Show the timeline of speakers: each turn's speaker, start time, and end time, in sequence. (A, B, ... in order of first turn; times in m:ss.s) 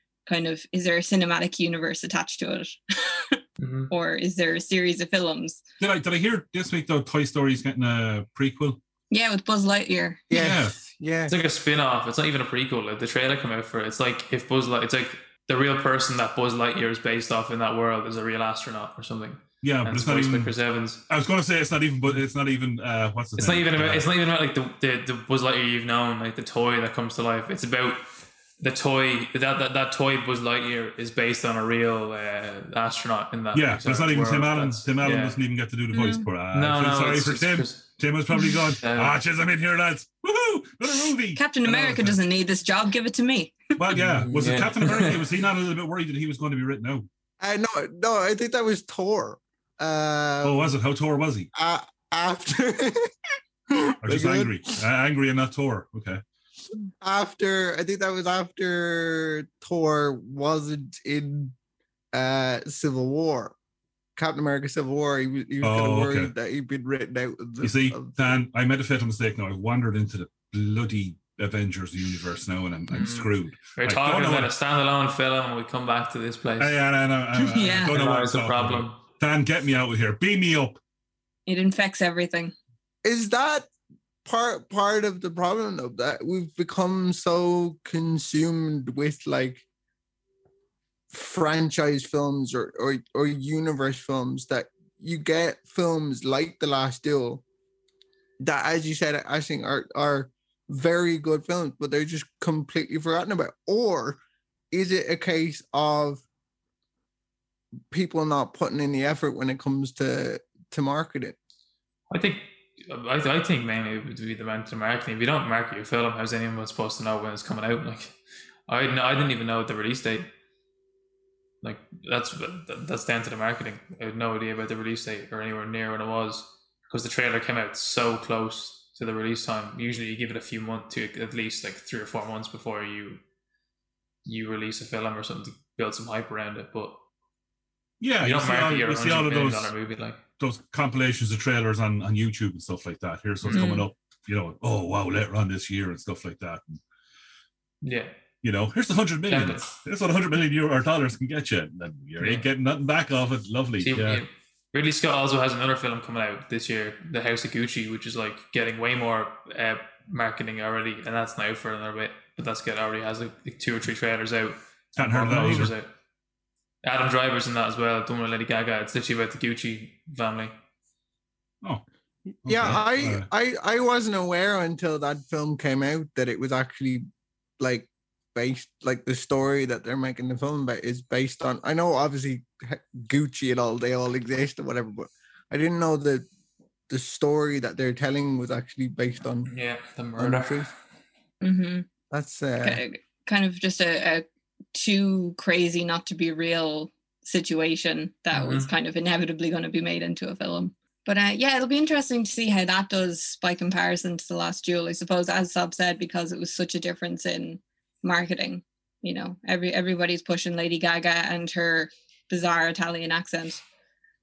0:00.3-0:05.6 A
0:03.6-0:03.9 B
0:05.8-0:08.8 C
0:09.1-0:10.2 A
0:10.3-0:11.3 D
0:10.3-0:10.8 C
0:11.3-0:21.0 B
0:19.6-0:20.5 C
0:21.1-0:24.1 C
0:23.4-0:35.5 B
0:33.5-0:42.2 C
0:35.9-0:36.3 A
0:36.5-0:39.2 B
0:41.4-0:43.9 A
0:43.8-0:47.1 C
0:43.9-0:45.2 B
0:47.4-0:50.8 D
0:50.4-0:51.5 C
0:51.5-0:53.2 D
0:53.7-0:54.6 D
0:54.0-0:56.2 C
0:57.0-1:01.6 D
1:02.1-1:03.6 D
1:04.2-1:08.4 D
1:05.6-1:06.3 C
1:07.6-1:14.5 C
1:12.9-1:19.0 B
1:16.6-1:20.8 C
1:17.4-1:18.0 A
1:21.5-1:22.5 A
1:23.0-1:23.7 D
1:24.2-1:29.6 D
1:31.1-1:37.4 D
1:38.4-1:44.2 D
1:44.7-1:46.2 D
1:47.9-1:51.4 D
1:52.1-2:00.3 B
2:01.6-2:13.2 B
2:14.2-2:17.0 B
2:18.0-2:19.7 C
2:18.2-2:20.2 B
2:20.4-2:26.8 C
2:23.4-2:23.9 B
2:23.5-2:23.9 A
2:27.8-2:28.1 B
2:28.4-2:34.2 C
2:29.2-2:29.8 B
2:32.2-2:32.5 B
2:33.8-2:45.9 B
2:45.0-2:45.7 C
2:46.8-2:50.6 B
2:52.4-2:57.0 D
2:52.4-2:53.3 C
2:57.6-3:06.3 D
3:06.9-3:09.5 D
3:09.4-3:10.7 B
3:10.2-3:10.7 D
3:11.4-3:11.9 A
3:12.1-3:12.8 D
3:12.6-3:33.6 A
3:18.3-3:18.7 B